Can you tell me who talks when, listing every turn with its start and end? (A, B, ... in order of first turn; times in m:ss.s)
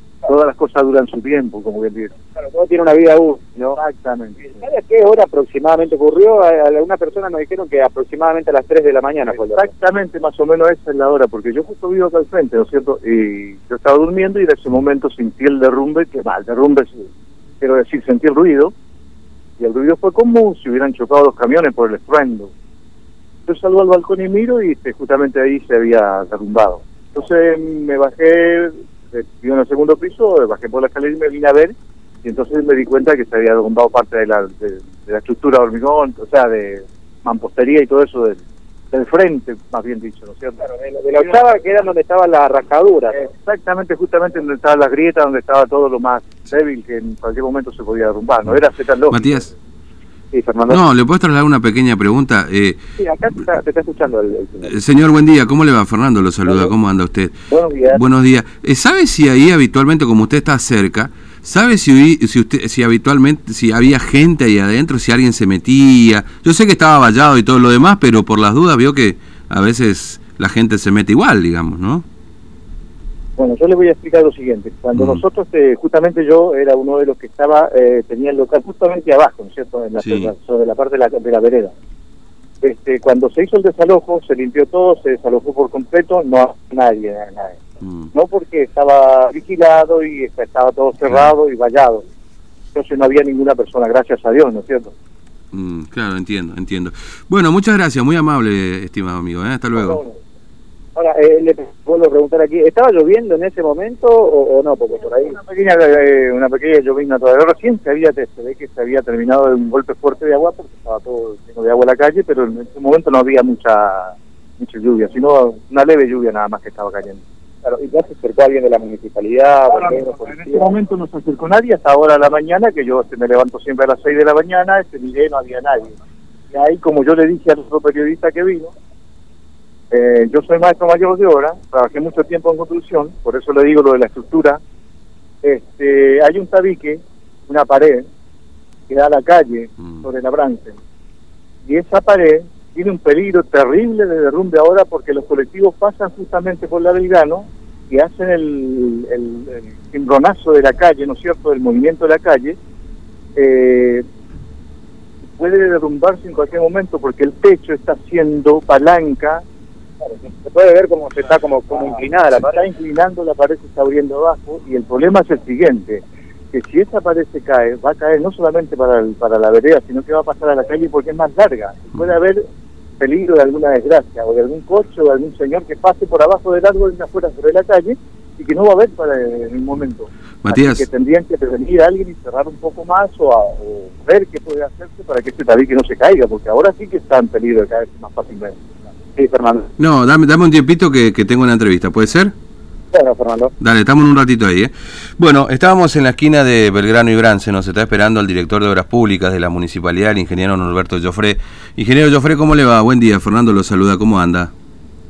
0:00.2-0:02.1 A
0:02.4-0:03.8 B
0:03.7-0:04.6 A
0:04.5-0:09.7 B
0:09.4-0:17.1 A
0:17.6-0:18.7 A
0:19.6-0:22.5 A
0:23.5-0:31.7 A
0:32.2-0:38.4 A
0:38.9-0:40.6 A
0:40.6-0:43.2 B
0:43.2-0:49.4 A
0:48.5-0:49.5 C
0:50.3-0:50.8 B
0:50.7-0:52.8 C
0:53.0-0:54.7 B
0:54.6-0:57.3 C
0:57.5-0:58.0 A
0:57.8-1:12.0 C
1:13.4-1:21.7 A
1:14.9-1:15.2 C
1:20.0-1:20.3 C
1:22.6-1:27.6 A
1:27.8-1:28.1 C
1:28.1-1:32.0 A
1:31.1-1:31.3 C
1:32.7-1:34.9 A
1:35.5-1:40.0 C
1:41.0-1:45.4 B
1:45.3-1:57.2 A
1:57.6-2:00.7 B
2:00.3-2:05.9 A
2:06.5-2:08.7 A
2:09.9-2:14.6 A
2:15.4-2:18.1 A
2:18.9-2:20.8 A
2:21.6-2:32.6 A
2:33.4-2:34.0 A
2:35.4-2:39.4 A
2:40.0-2:42.6 B
2:42.4-2:52.4 A
2:53.0-3:08.6 A
3:00.4-3:00.8 C
3:09.2-3:09.7 B
3:09.8-3:12.3 C
3:12.9-3:13.5 B
3:13.6-3:24.5 C